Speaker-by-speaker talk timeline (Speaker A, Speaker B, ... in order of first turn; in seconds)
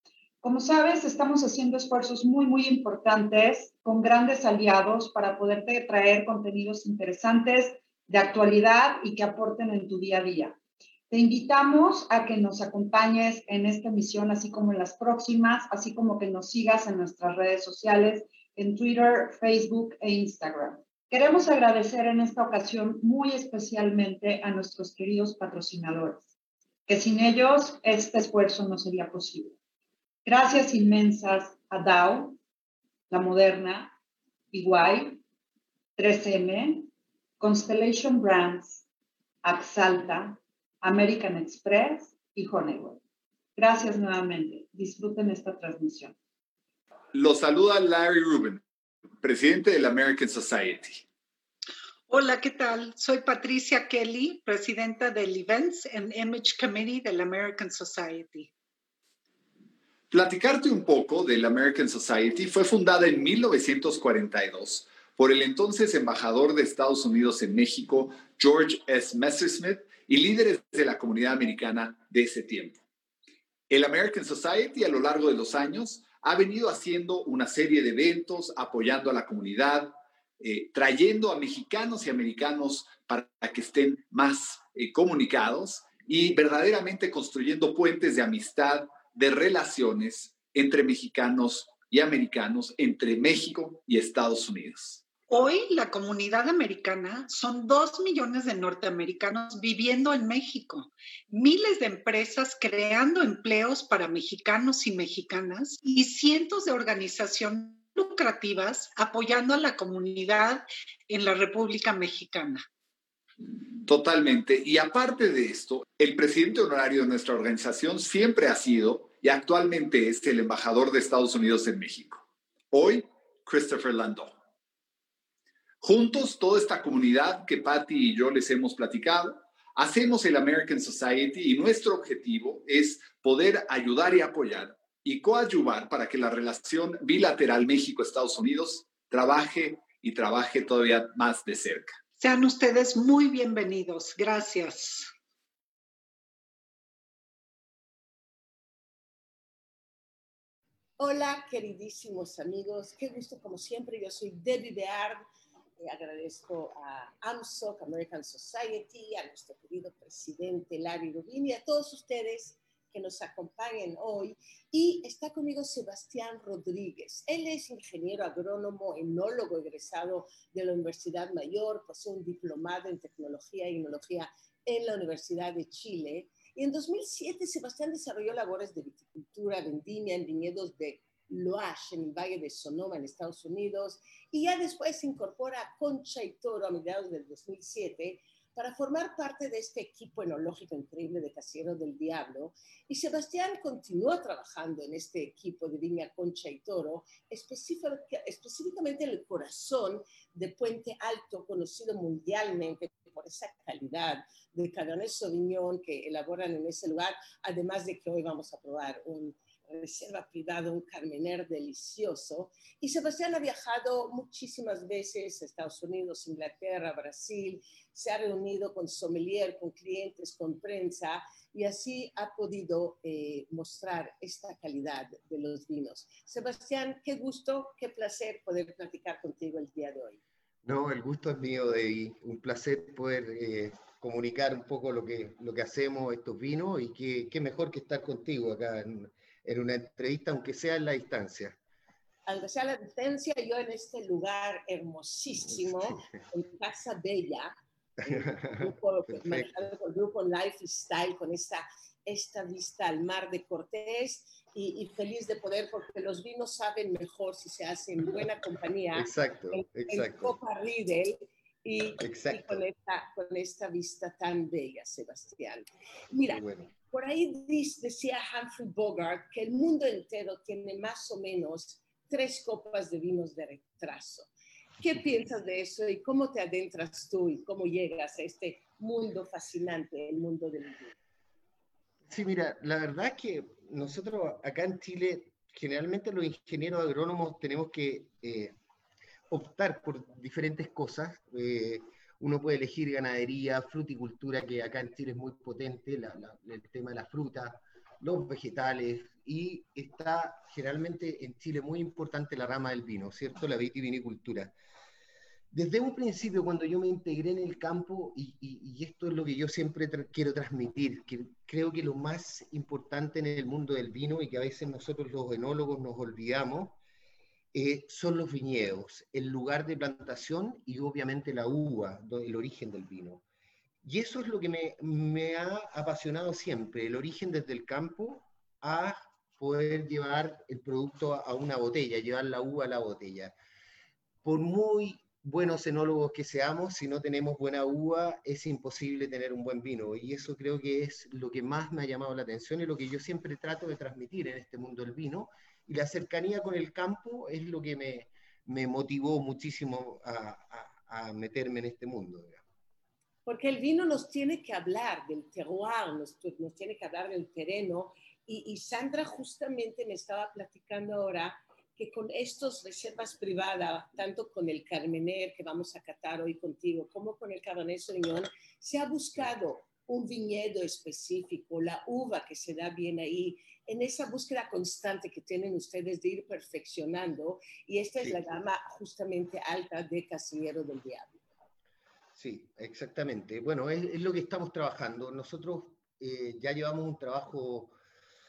Speaker A: 0.4-10.6, 11.1-26.3, 26.9-29.5, 30.2-32.4, 33.1-33.9, 34.5-35.2, 36.0-38.8, 39.4-43.0, 43.5-46.1
Speaker B: 47.1-48.6, 49.2-51.0, 60.1-72.8, 73.7-95.0, 113.8-124.3, 125.8-142.0
Speaker C: 52.1-58.5, 95.3-112.7, 142.2-145.1
Speaker D: 151.0-155.2, 155.8-230.2, 242.3-247.5, 248.0-280.9, 353.2-381.2
Speaker E: 230.6-241.6, 245.5-246.2, 248.0-249.5, 258.9-260.4, 262.0-262.6, 266.3-266.7, 282.1-288.5, 289.3-304.5, 305.5-316.8, 317.5-323.2, 323.8-333.3, 334.2-352.4, 382.1-387.8